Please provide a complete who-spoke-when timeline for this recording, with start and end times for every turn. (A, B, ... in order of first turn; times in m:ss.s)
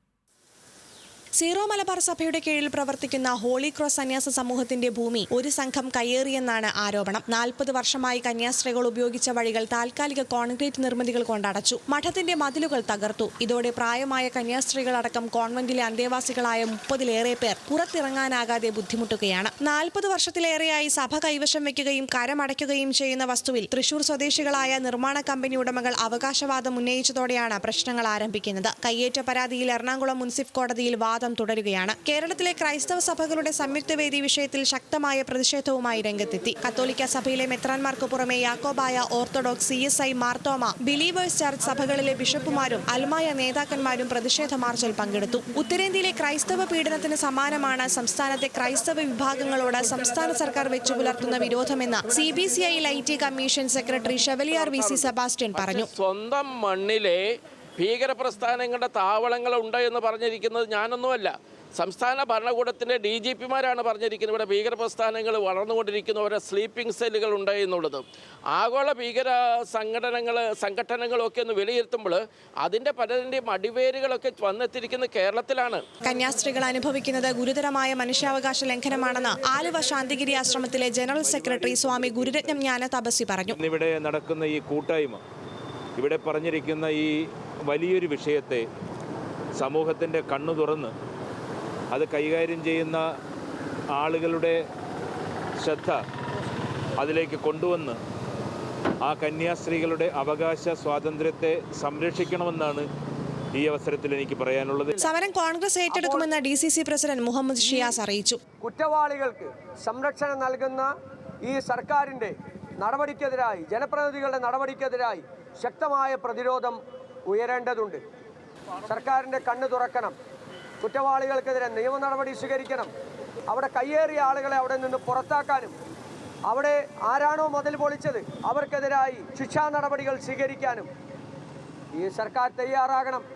0:01.4-0:55.9 A
0:55.6-0:57.2 B
0:57.8-1:15.8 B
1:16.0-1:23.6 A
1:21.2-1:22.6 C
1:23.5-1:25.2 C
1:26.0-1:27.2 C
1:27.7-1:28.6 C
1:29.6-1:30.9 C
1:31.9-1:33.1 C
1:33.9-1:34.6 C
1:35.6-1:36.0 C
1:37.0-1:38.0 C
1:39.0-1:42.9 C
1:43.6-1:45.0 C
1:45.0-1:48.4 A
1:48.6-1:50.9 D
1:51.4-1:58.0 D
1:58.9-2:00.2 D
2:00.8-2:02.9 D
2:03.5-2:05.8 D
2:06.5-2:10.9 D
2:12.0-2:13.2 D